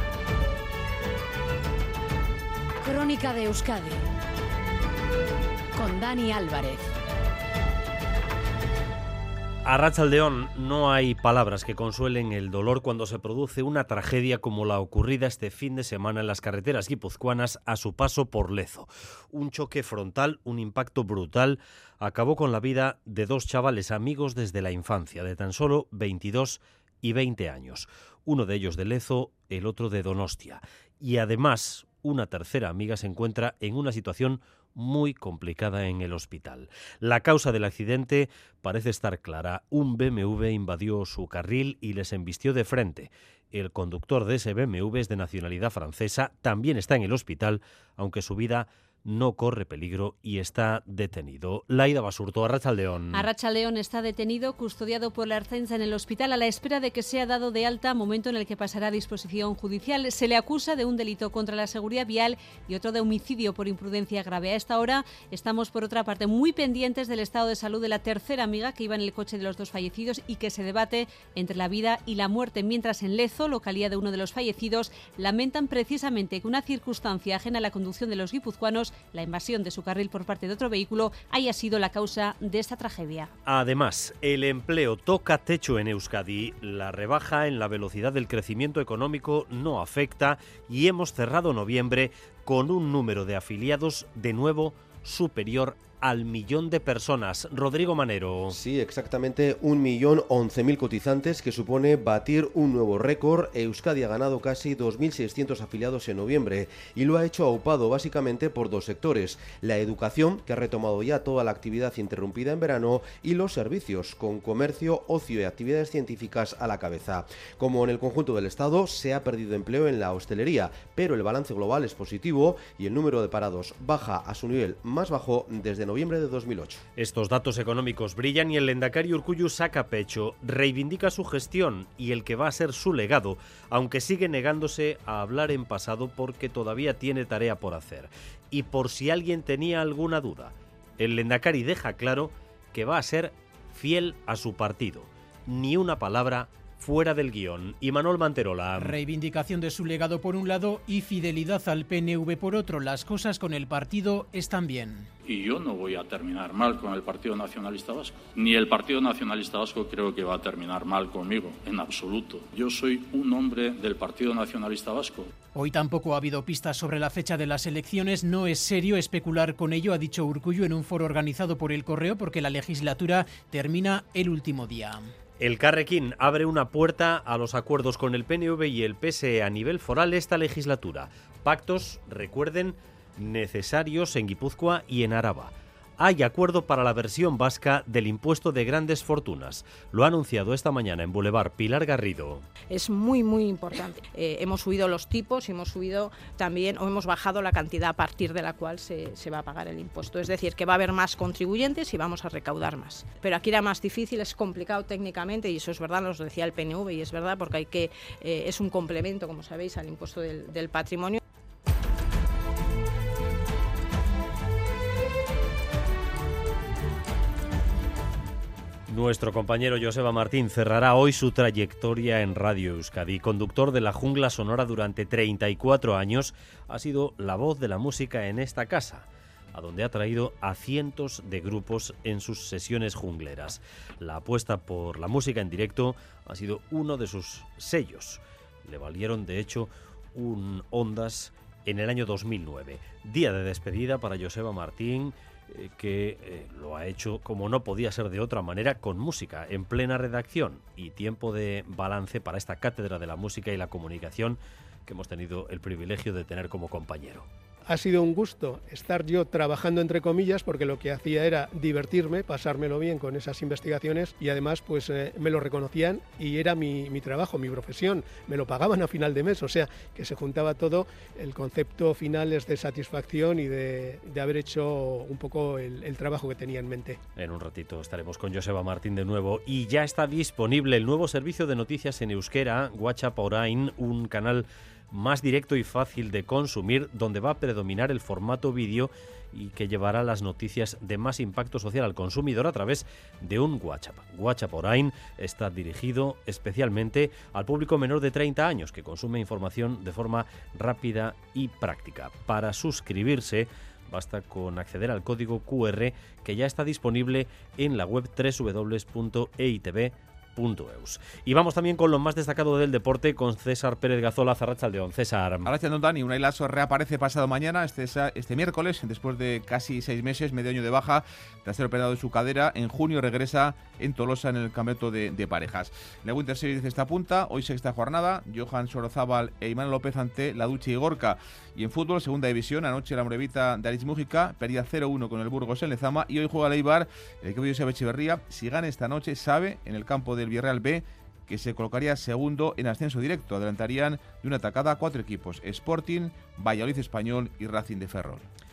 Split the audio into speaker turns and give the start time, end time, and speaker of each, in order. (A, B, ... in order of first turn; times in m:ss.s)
0:02.8-0:04.0 A
0:05.7-0:06.9 A
0:09.6-0:53.2 B
0:53.1-1:23.3 C
1:23.4-1:38.6 B
1:38.5-2:06.8 D
2:07.0-2:29.0 B
2:28.8-2:35.1 E
2:35.2-2:45.3 F
2:45.5-2:55.1 E
2:55.4-3:12.4 B
3:12.7-3:31.2 G
3:38.9-4:17.3 B
4:17.7-4:37.0 H
4:37.2-5:15.5 B
5:15.4-5:48.3 I